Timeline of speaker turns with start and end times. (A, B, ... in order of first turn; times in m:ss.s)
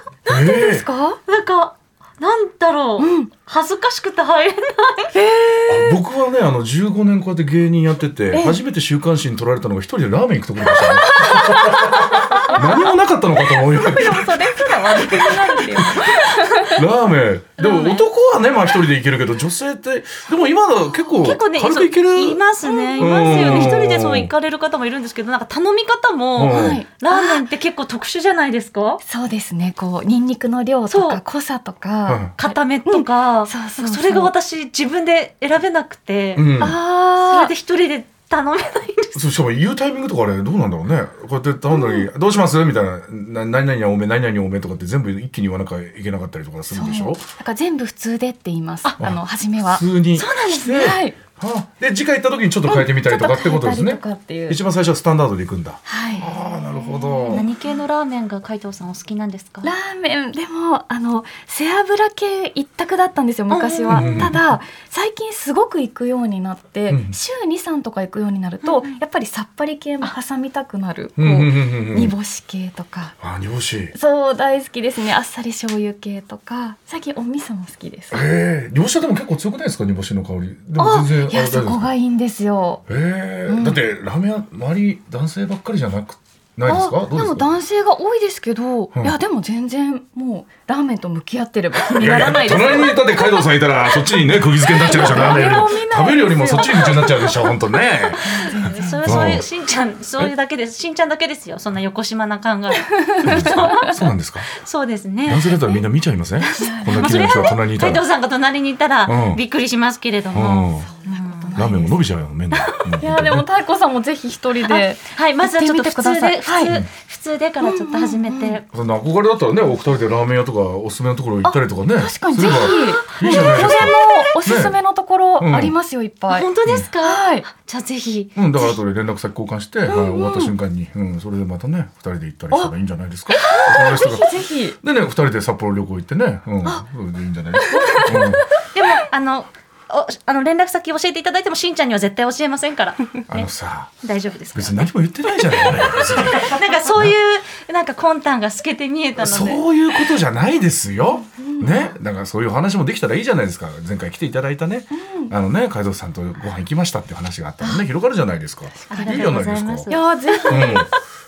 0:00.2-0:01.2 A
0:00.3-0:00.8 B
0:01.3-0:05.1 C
0:03.0-0:03.3 A
0:05.1-0:06.0 A
0:05.7-0:15.9 B
0:08.3-0:08.6 A
0:10.7-0:12.9 A
0:13.5-0:16.8 A
0:16.7-0:22.4 B
0:17.6-0:18.1 C
0:21.1-0:29.0 C
0:22.6-0:23.8 A
0:23.0-0:24.3 B
0:26.4-0:26.8 B
0:26.5-0:27.4 A
0:29.0-0:34.3 A
0:30.9-0:31.2 C
0:32.1-0:32.3 B
0:32.4-0:36.6 C
0:36.3-0:36.8 B
0:36.6-0:37.5 A
0:37.2-0:39.2 C
0:39.1-0:47.2 B
0:41.7-0:42.0 A
0:46.7-0:49.8 A
0:49.0-0:57.4 B
0:50.1-0:50.9 C
0:50.7-0:51.2 A
0:52.6-0:54.6 A
0:55.9-0:57.4 A
0:57.3-0:59.7 C
0:59.6-1:13.2 A
1:03.5-1:04.3 C
1:03.9-1:04.4 B
1:06.9-1:07.2 B
1:08.6-1:09.0 C
1:11.2-1:12.1 B
1:13.2-1:13.9 B
1:13.9-1:18.3 A
1:18.1-1:21.9 B
1:20.8-1:22.8 A
1:22.9-1:27.5 B
1:23.5-1:23.8 A
1:26.6-1:33.4 A
1:31.9-1:38.4 B
1:34.7-1:37.3 A
1:34.8-1:37.3 C
1:38.1-1:45.6 C
1:38.2-1:39.4 A
1:39.0-1:39.4 B
1:42.9-1:43.9 A
1:43.2-1:44.5 B
1:45.2-1:48.0 B
1:46.4-1:47.5 A
1:46.9-1:51.6 C
1:49.0-1:49.4 B
1:50.3-1:50.9 B
1:50.8-1:52.0 A
1:51.5-1:53.4 B
1:53.0-1:56.7 A
1:54.6-1:58.6 C
1:57.6-1:58.6 A
1:58.7-2:04.8 B
2:01.4-2:06.5 A
2:02.4-2:04.3 C
2:05.4-2:05.7 B
2:06.3-2:08.4 C
2:07.0-2:07.4 A
2:08.4-2:18.5 B
2:09.9-2:10.5 A
2:13.3-2:14.8 A
2:17.6-2:18.4 A
2:18.6-2:23.5 C
2:23.3-2:23.9 B
2:24.0-2:29.6 C
2:24.5-2:27.1 B
2:29.2-2:39.9 B
2:31.2-2:31.9 A
2:34.9-2:35.3 A
2:38.9-2:39.2 A
2:38.9-2:40.9 C
2:39.9-2:40.9 A
2:40.5-2:40.9 B